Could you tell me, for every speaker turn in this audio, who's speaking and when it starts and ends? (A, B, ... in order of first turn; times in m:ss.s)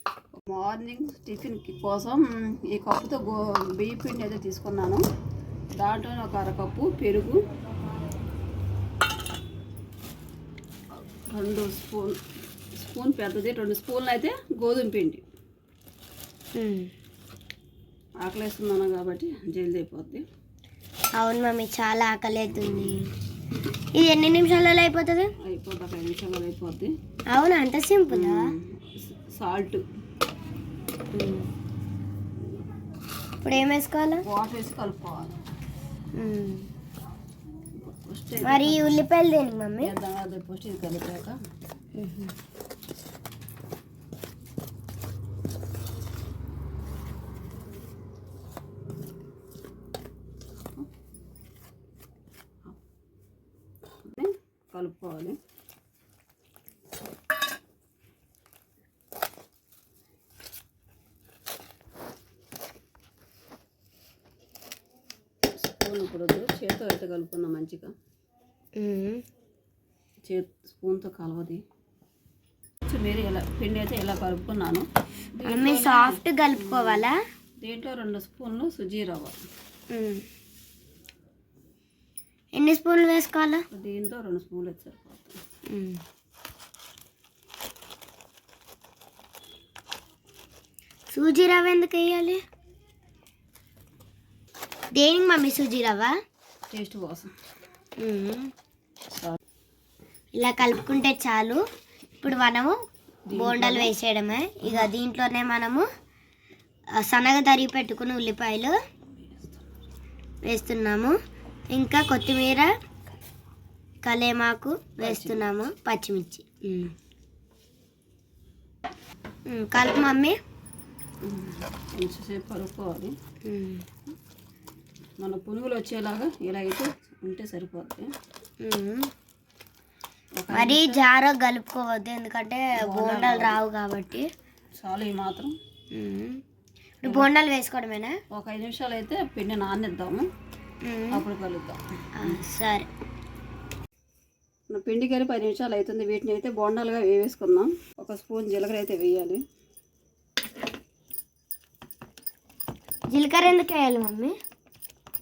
0:00.4-0:05.0 A
0:05.8-0:07.4 A
0:11.3-0:12.2 A
0:12.8-0:15.2 A
0:16.6-0:16.9 B
0:18.2-0:20.2 A
0:21.2-0:23.1 B
0:24.0-0:25.3 B
0:25.4-0:26.9 A
0:27.3-0:28.5 B
0:28.1-0:29.8 A
0:31.1-0:31.5 B
0:33.4-0:34.2 B
0:34.2-0:35.3 A
0:36.2-0:36.7 B
0:37.8-0:38.8 A
0:38.4-0:39.9 B
0:39.8-0:41.4 A
0:42.0-0:42.3 B
0:54.1-0:55.4 A
1:05.6-1:07.9 A
1:08.8-1:09.2 B
1:10.3-1:11.6 A
1:12.9-1:17.1 A
1:15.5-1:17.2 B
1:17.6-1:19.4 A
1:19.9-1:20.2 B
1:22.6-1:23.6 B
1:23.7-1:25.4 A
1:25.7-1:26.0 B
1:31.1-1:32.4 B
1:35.0-1:36.1 B
1:36.7-1:37.3 A
1:38.0-1:38.5 B
1:40.4-1:41.6 B
1:42.2-1:42.8 B
1:43.3-1:43.9 A
1:43.4-1:45.8 B
1:44.6-1:44.9 A
1:47.0-1:48.8 B
1:49.1-1:49.6 A
1:50.5-1:51.1 B
1:51.7-1:52.7 B
1:54.0-1:56.9 B
1:55.0-1:55.5 A
1:59.5-2:00.4 B
2:01.2-2:03.1 A
2:03.4-2:03.8 B
2:05.2-2:08.1 A
2:08.6-2:09.1 B
2:10.4-2:11.0 A
2:10.5-2:14.3 B
2:12.8-2:13.6 A
2:14.8-2:15.6 A
2:16.0-2:16.4 B
2:17.0-2:18.2 B
2:17.0-2:17.3 A
2:18.3-2:20.3 A
2:20.8-2:21.2 B
2:21.1-2:22.4 A
2:22.2-2:22.9 B
2:24.7-2:29.4 A
2:33.1-2:34.3 B